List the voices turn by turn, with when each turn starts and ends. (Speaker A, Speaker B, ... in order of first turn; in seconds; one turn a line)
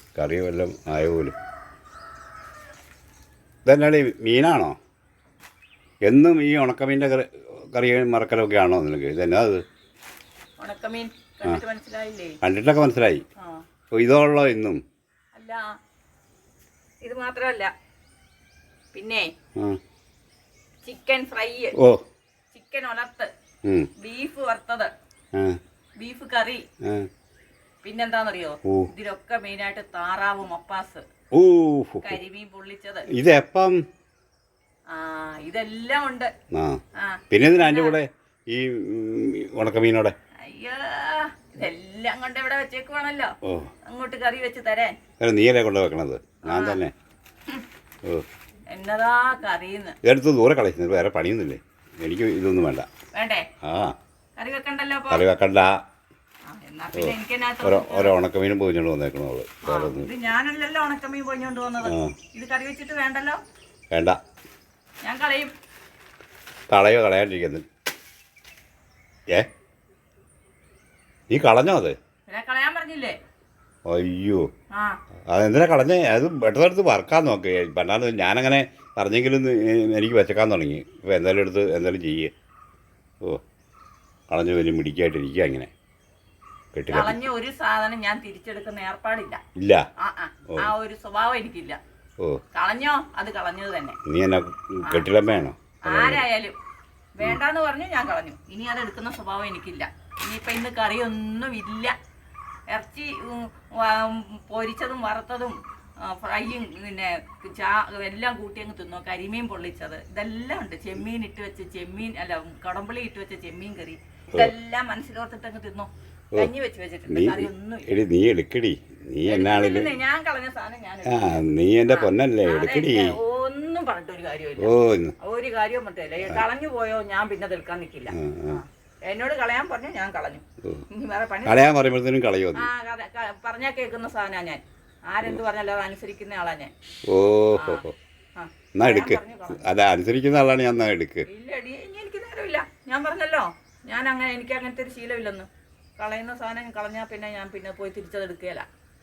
Speaker A: 0.1-1.3
Speaker A: 3.6-4.8
Speaker A: 6.1-9.6
Speaker B: 10.6-12.4
Speaker A: 12.4-13.2
Speaker B: 13.4-13.6
Speaker A: 13.9-14.8
Speaker B: 15.3-15.8
Speaker B: 17.0-17.7
Speaker B: 18.9-19.3
Speaker B: 20.8-21.8
Speaker B: 22.5-23.3
Speaker A: 23.6-23.9
Speaker B: 24.0-24.9
Speaker B: 26.0-26.6
Speaker B: 27.8-31.0
Speaker A: 31.3-32.2
Speaker B: 32.0-33.1
Speaker A: 33.1-33.8
Speaker B: 34.9-36.3
Speaker A: 36.5-40.1
Speaker B: 37.0-38.0
Speaker B: 40.4-43.3
Speaker A: 43.4-43.7
Speaker B: 43.9-45.0
Speaker A: 45.2-46.9
Speaker B: 46.4-46.8
Speaker B: 48.7-50.0
Speaker A: 50.0-52.9
Speaker B: 53.1-53.5
Speaker A: 53.6-53.9
Speaker B: 54.4-55.2
Speaker A: 55.1-55.7
Speaker B: 56.5-58.1
Speaker A: 56.9-60.1
Speaker B: 59.6-63.4
Speaker A: 61.8-62.2
Speaker A: 63.9-64.2
Speaker B: 65.0-65.5
Speaker A: 66.7-67.6
Speaker A: 71.3-71.9
Speaker B: 72.3-73.2
Speaker A: 73.9-74.4
Speaker B: 74.7-75.0
Speaker A: 75.3-82.3
Speaker A: 84.3-85.7
Speaker A: 86.7-87.2
Speaker B: 86.9-89.4
Speaker A: 89.6-89.8
Speaker B: 90.0-91.8
Speaker B: 92.5-94.0
Speaker A: 94.1-96.2
Speaker B: 95.8-96.5
Speaker B: 97.2-101.9
Speaker B: 102.7-117.9
Speaker A: 117.1-119.9
Speaker B: 119.2-131.6
Speaker A: 121.1-123.2
Speaker A: 124.6-125.2
Speaker A: 128.1-128.6
Speaker A: 131.4-132.7
Speaker B: 132.5-136.7
Speaker A: 137.1-137.9
Speaker B: 137.5-137.8
Speaker B: 138.3-139.6
Speaker A: 138.8-141.3
Speaker B: 141.2-145.5
Speaker B: 146.0-148.7